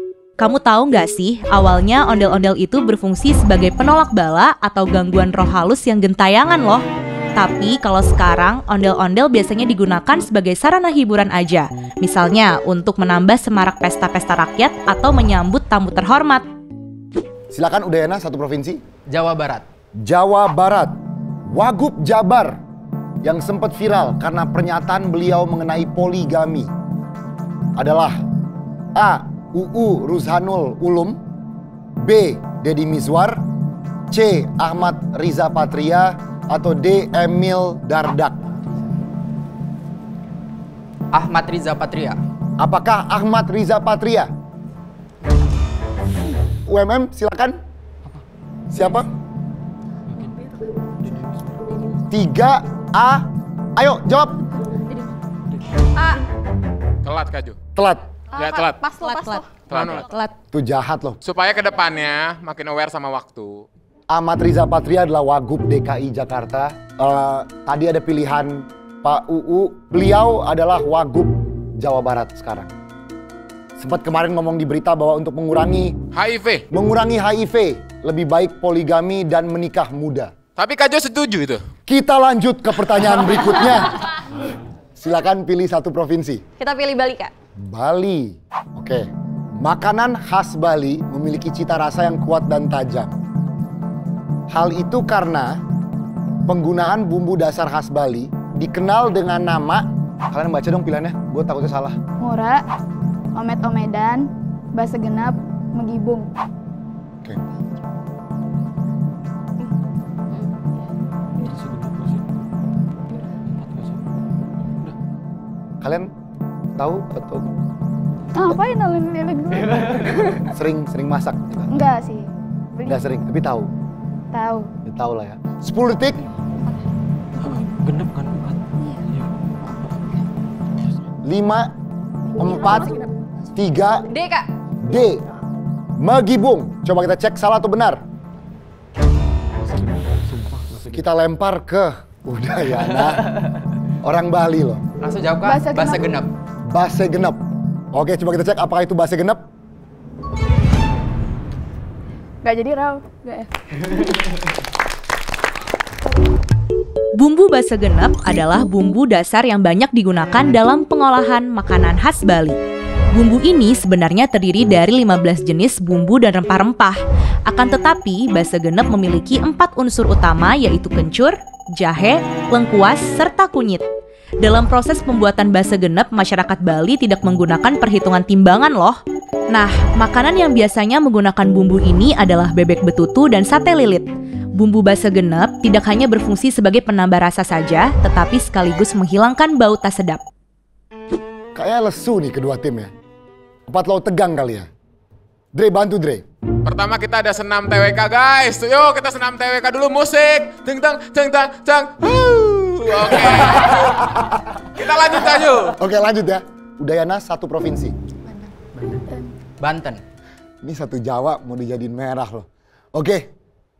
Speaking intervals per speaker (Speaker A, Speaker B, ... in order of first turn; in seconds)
Speaker A: 0.4-6.8, 7.3-16.4, 59.0-60.3, 157.1-162.6, 163.1-173.8, 174.4-179.0, 179.5-190.2
Speaker B: 17.5-18.8, 20.0-22.6, 23.2-26.7, 27.8-28.2, 28.9-31.2, 32.0-33.4, 34.1-38.5, 42.6-44.3, 46.6-47.6, 48.7-49.1, 52.1-54.4, 57.8-58.0, 60.5-61.2, 64.1-72.7, 73.8-76.0, 76.7-80.3, 81.9-84.2, 85.0-86.4, 87.6-93.1, 94.5-95.6, 96.5-102.0, 115.8-116.1, 116.8-117.5, 120.5-121.7, 122.8-123.7, 124.8-126.2, 131.2-131.7, 132.4-133.0, 133.5-134.1, 134.8-135.2, 136.0-138.0, 140.9-143.4, 144.0-144.8, 146.7-149.4, 191.5-192.9, 193.7-194.7, 195.5-196.2, 203.4-204.3, 205.8-207.9, 210.6-213.3
Speaker C: 19.1-19.6, 41.1-42.2, 145.0-146.3, 208.7-209.0, 209.6-210.0
Speaker D: 50.1-50.4, 51.0-52.0, 55.5-55.9, 111.4-112.3, 113.4-114.0, 119.8-120.1, 127.4-129.3, 139.5-141.1
Speaker E: 55.9-56.3, 58.3-60.0, 86.6-87.3, 134.1-134.5
Speaker F: 57.0-57.6, 58.4-58.8, 59.7-60.1, 61.2-63.6, 76.1-76.7, 80.6-81.6, 196.6-204.2, 204.7-205.8
Speaker G: 102.2-102.6, 103.3-106.3, 118.3-120.5, 121.7-123.0, 124.3-124.7, 145.4-146.1, 152.4-153.9